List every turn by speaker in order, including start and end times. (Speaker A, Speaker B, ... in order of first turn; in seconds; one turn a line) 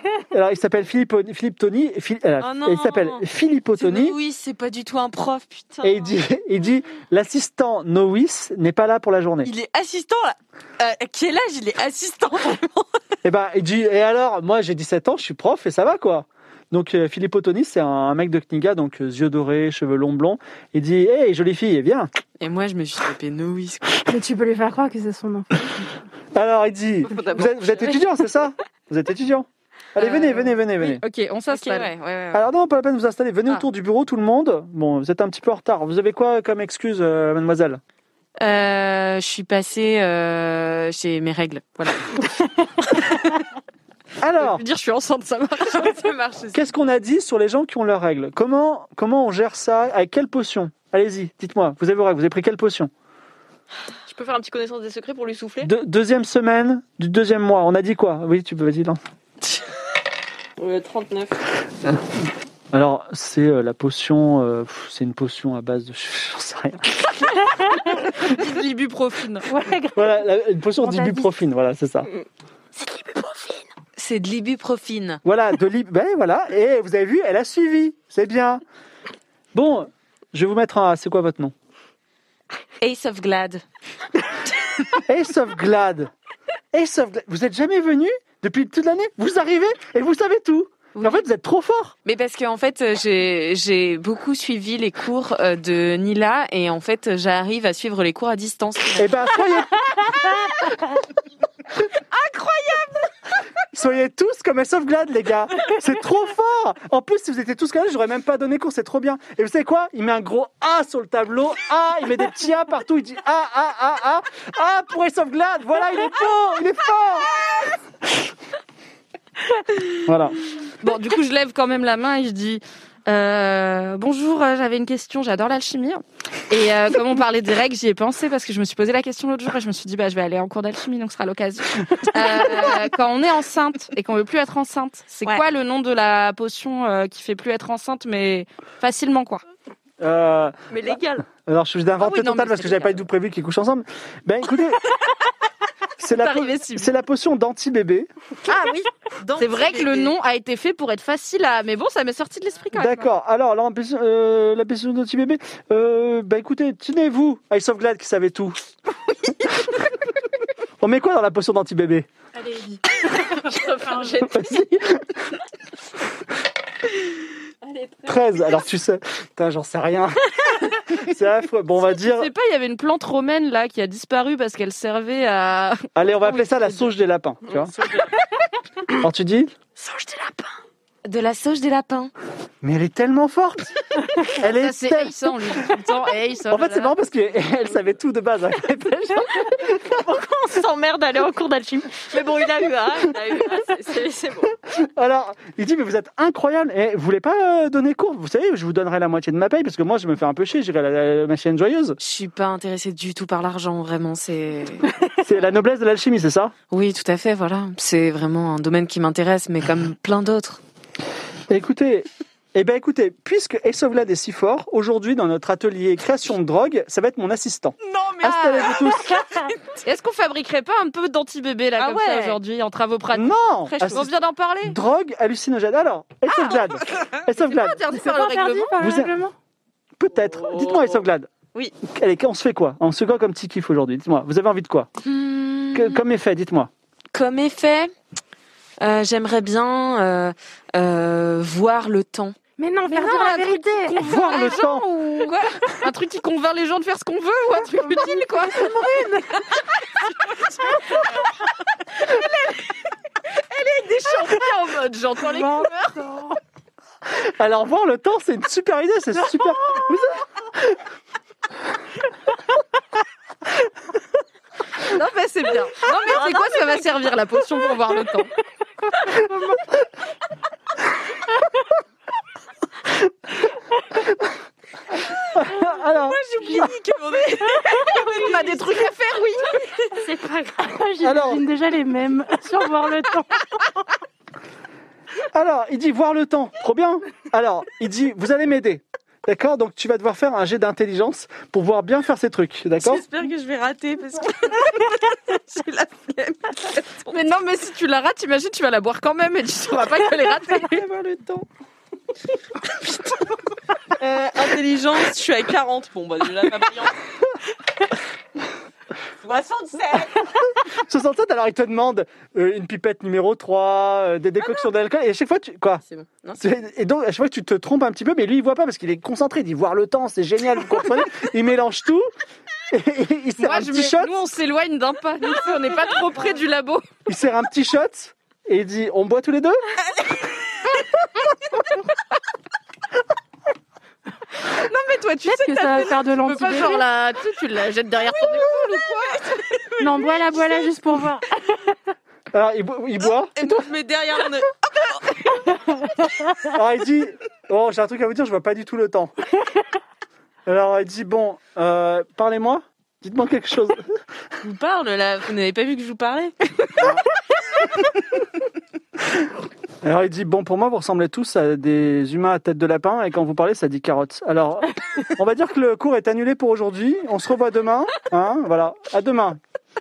Speaker A: 0.3-4.2
Speaker B: 2.4-3.2
Speaker B: 3.8-6.2
Speaker A: 5.8-9.5
Speaker B: 9.4-13.0
Speaker A: 13.2-22.1
Speaker B: 22.4-24.0
Speaker C: 24.1-25.7
Speaker A: 26.3-31.0
Speaker B: 27.1-28.1
Speaker B: 30.0-30.6
Speaker D: 30.8-31.9
Speaker B: 31.5-32.4
Speaker A: 32.3-37.8
Speaker B: 38.4-42.4
Speaker A: 44.2-44.6
Speaker D: 44.4-46.1
Speaker B: 45.7-46.6
Speaker A: 46.5-52.9
Speaker E: 54.1-55.7
Speaker A: 55.6-59.0
Speaker E: 60.6-61.4
Speaker A: 62.7-67.3
Speaker D: 67.9-69.5
Speaker C: 69.5-70.2
Speaker A: 70.0-72.1
Speaker C: 70.8-71.3
Speaker E: 72.9-73.6
Speaker B: 74.0-75.2
Speaker A: 75.2-78.6
Speaker A: 79.5-81.5
Speaker B: 82.8-83.6
Speaker A: 85.0-86.1
Speaker A: 86.7-92.0
Speaker B: 91.0-91.2
Speaker B: 92.0-99.1
Speaker A: 99.0-100.2
Speaker D: 102.1-103.0
Speaker A: 103.7-117.3
Speaker A: 120.0-120.4
Speaker D: 120.8-139.4
Speaker A: 140.0-140.6
Speaker E: 140.7-141.2
Speaker A: 141.3-144.9
Speaker D: 142.0-143.0
Speaker A: 146.0-148.1
Speaker D: 146.2-146.9
Speaker D: 148.5-153.1
Speaker B: 149.2-150.1
Speaker A: 152.7-158.6
Speaker A: 160.8-162.1
Speaker A: 164.2-165.1
Speaker A: 168.1-172.3
Speaker D: 172.0-176.9
Speaker A: 175.9-177.7
Speaker B: 177.7-178.1
Speaker A: 179.0-179.6
Speaker E: 179.8-180.5
Speaker B: 181.0-182.1
Speaker A: 182.6-185.7
Speaker D: 184.4-186.9
Speaker A: 186.5-189.8
Speaker E: 189.8-194.5
Speaker A: 194.7-202.0
Speaker B: 202.0-205.0
Speaker A: 205.2-206.6
Speaker B: 206.7-210.6
Speaker A: 211.5-219.2
Speaker B: 217.9-219.8
Speaker D: 218.2-218.9
Speaker D: 219.8-224.8
Speaker B: 221.8-222.4
Speaker A: 223.1-227.8
Speaker D: 226.3-228.7
Speaker C: 227.9-229.3
Speaker A: 228.8-229.1
Speaker A: 230.0-231.3
Speaker A: 231.8-234.9
Speaker B: 235.0-236.0
Speaker A: 235.7-236.7
Speaker B: 237.1-237.9
Speaker B: 238.8-242.4
Speaker C: 242.6-244.0
Speaker D: 242.9-249.1
Speaker A: 244.0-244.9
Speaker C: 247.6-249.5
Speaker D: 250.7-251.1
Speaker D: 252.1-252.5
Speaker D: 253.5-256.1
Speaker C: 255.3-256.4
Speaker A: 257.1-260.8
Speaker D: 264.8-268.3
Speaker A: 275.3-276.7
Speaker B: 275.5-278.5
Speaker D: 277.9-279.6
Speaker C: 279.9-283.4
Speaker A: 281.0-281.4
Speaker A: 285.3-293.0
Speaker B: 292.8-297.1
Speaker D: 297.1-301.4
Speaker B: 304.0-307.1
Speaker B: 309.2-310.4
Speaker A: 310.6-315.8
Speaker B: 315.9-316.4
Speaker A: 316.4-322.1
Speaker A: 322.7-324.2
Speaker D: 323.4-326.9
Speaker A: 327.1-329.7
Speaker D: 334.4-339.3
Speaker C: 335.2-336.8
Speaker B: 338.2-340.4
Speaker C: 339.8-341.3
Speaker A: 342.3-343.6
Speaker B: 343.4-345.6
Speaker A: 346.5-349.1
Speaker A: 350.5-353.9
Speaker B: 354.4-356.9
Speaker A: 356.8-357.0
Speaker A: 359.8-369.4